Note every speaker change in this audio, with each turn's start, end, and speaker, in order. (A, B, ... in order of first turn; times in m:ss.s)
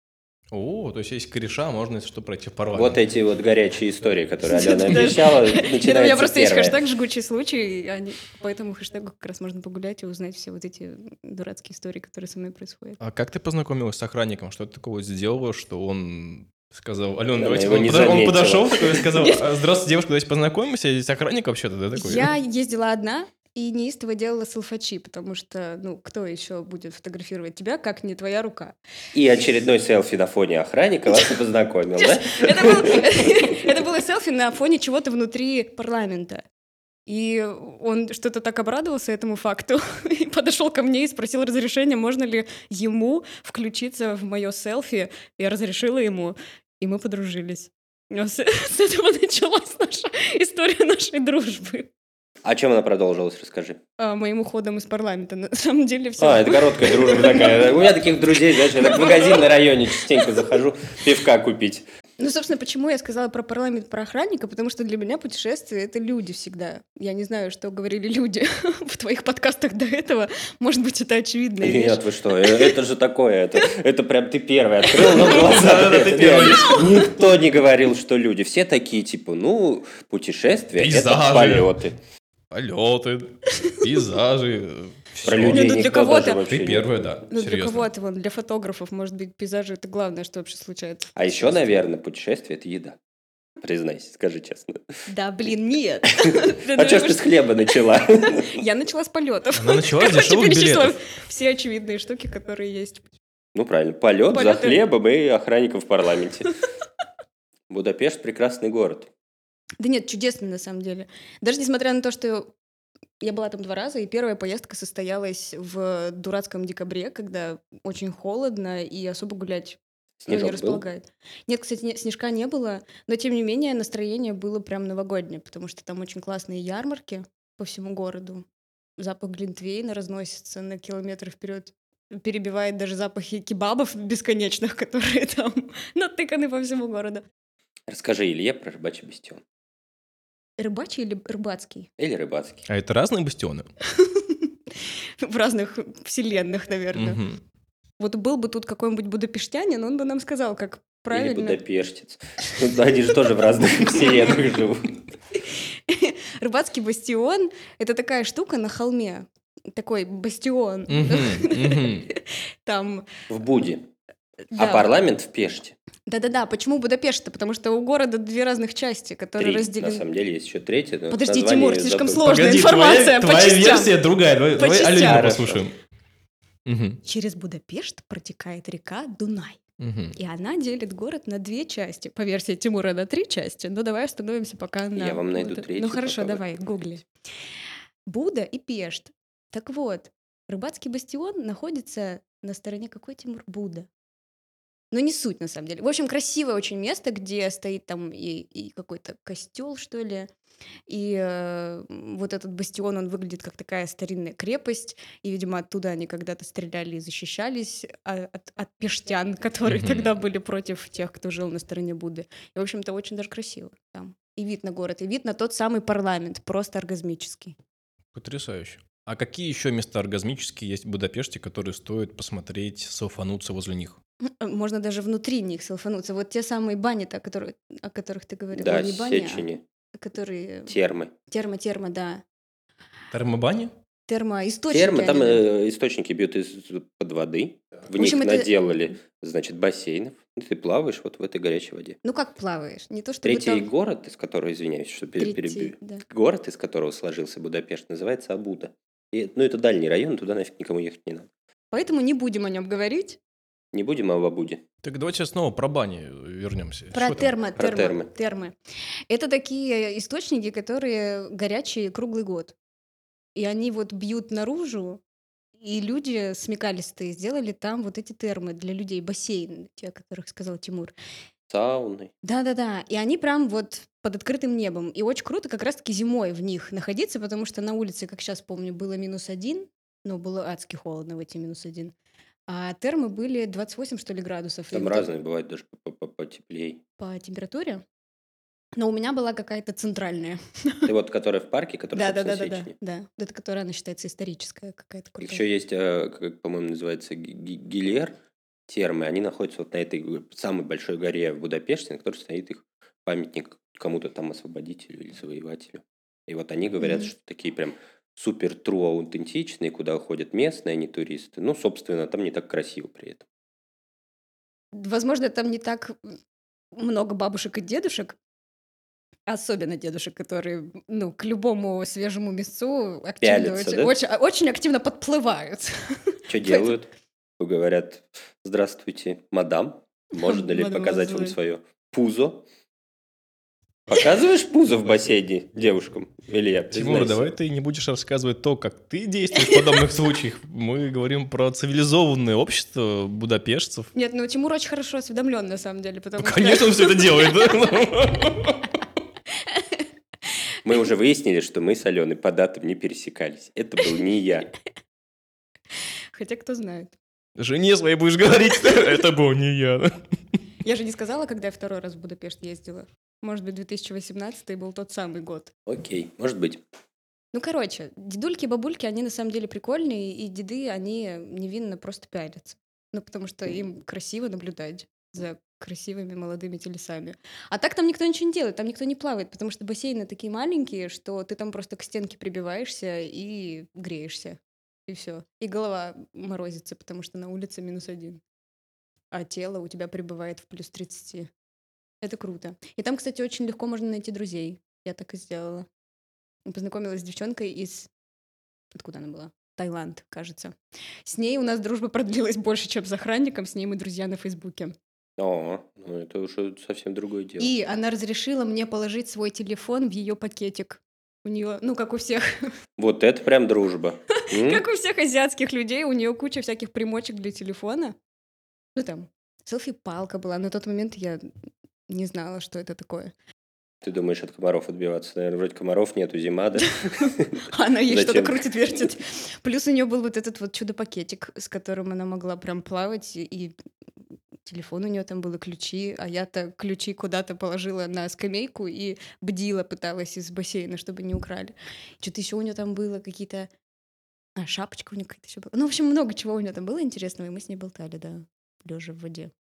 0:00.5-0:03.0 A
0:02.7-0:06.8 B
0:04.4-0:13.0 C
0:13.0-0:22.3 A
0:17.3-0:19.0 B
0:19.1-0:19.4 C
0:21.9-0:28.8 C
0:29.1-0:33.0 B
0:31.9-0:36.4 C
0:37.1-0:51.9 C
0:52.4-0:53.8 B
0:54.0-0:59.5 C
0:56.2-1:01.8 B
1:02.2-1:12.8 C
1:11.6-1:22.0 B
1:15.1-1:17.1 A
1:20.8-1:21.7 A
1:22.5-1:25.9 A
1:25.2-1:26.9 B
1:25.4-1:26.4 C
1:26.4-1:27.9 A
1:27.3-1:31.2 C
1:31.2-1:33.0 B
1:33.6-1:34.8 B
1:35.1-1:43.1 C
1:36.2-1:38.6 B
1:39.5-1:41.0 A
1:43.5-1:46.5 B
1:44.3-1:44.8 C
1:47.7-1:49.1 B
1:49.8-1:52.5 C
1:53.2-2:08.4 C
2:00.2-2:00.8 B
2:09.0-2:17.2 C
2:17.9-2:19.4 B
2:20.6-2:21.9 C
2:22.0-2:22.6 B
2:22.7-2:23.7 A
2:23.9-2:24.5 C
2:25.2-2:27.2 C
2:26.9-2:27.4 A
2:28.0-2:31.6 C
2:31.1-2:34.9 B
2:35.4-2:43.1 C
2:40.9-2:42.1 A
2:43.3-2:43.9 B
2:44.5-2:44.9 C
2:44.5-2:45.8 B
2:46.1-2:50.0 C
2:49.4-2:52.4 B
2:51.1-2:54.0 C
2:52.2-2:55.7 A
2:54.6-2:55.4 C
2:54.9-2:55.6 B
2:56.6-2:57.0 A
2:57.0-2:59.6 C
2:59.8-3:00.2 A
3:00.2-3:07.0 C
3:04.9-3:06.8 B
3:08.1-3:13.9 C
3:14.9-3:20.3 C
3:20.9-3:37.6 C
3:29.6-3:30.1 A
3:38.1-3:44.0 A
3:44.2-3:50.7 C
3:48.5-3:49.6 B
3:50.7-3:51.1 B
3:51.3-3:52.2 C
3:53.1-3:53.7 A
3:54.1-3:55.4 C
3:54.7-4:02.0 B
3:57.9-3:58.6 C
4:02.0-4:03.7 C
4:03.2-4:11.3 B
4:05.2-4:06.0 C
4:11.7-4:13.2 C
4:13.7-4:14.6 B
4:14.8-4:17.3 A
4:16.9-4:18.5 C
4:17.6-4:18.1 B
4:19.1-4:22.5 C
4:23.4-4:25.0 C
4:25.6-4:30.9 C
4:31.5-4:32.1 B
4:32.2-4:41.9 C
4:42.5-4:45.1 C
4:44.7-4:46.8 B
4:47.0-4:47.8 C
4:48.8-4:50.9 C
4:50.8-4:52.7 B
4:51.9-4:55.4 C
4:55.2-5:13.2 B
5:06.8-5:07.1 C
5:14.7-5:16.2 C
5:16.7-5:18.2 C
5:19.3-5:26.7 C
5:23.2-5:23.9 B
5:26.3-5:32.4 B
5:30.2-5:31.4 C
5:33.9-5:37.3 B
5:36.7-5:43.9 A
5:39.4-5:39.9 C
5:43.9-5:47.6 C
5:46.2-5:48.6 A
5:49.4-5:49.8 C
5:50.6-5:54.5 B
5:56.1-5:57.0 C
5:57.4-6:00.0 A
6:00.6-6:05.5 C
6:05.7-6:06.6 B
6:07.3-6:28.2 C
6:29.1-6:31.3 C
6:32.0-6:35.7 C
6:36.4-6:37.9 C
6:38.7-6:44.7 C
6:45.2-6:47.5 B
6:47.4-6:52.5 C
6:52.8-6:54.6 B
6:54.2-6:58.0 C
6:58.8-7:01.3 C
7:01.9-7:03.1 C
7:03.8-7:08.6 B
7:06.6-7:13.5 C
7:14.4-7:23.5 C
7:24.4-7:29.3 C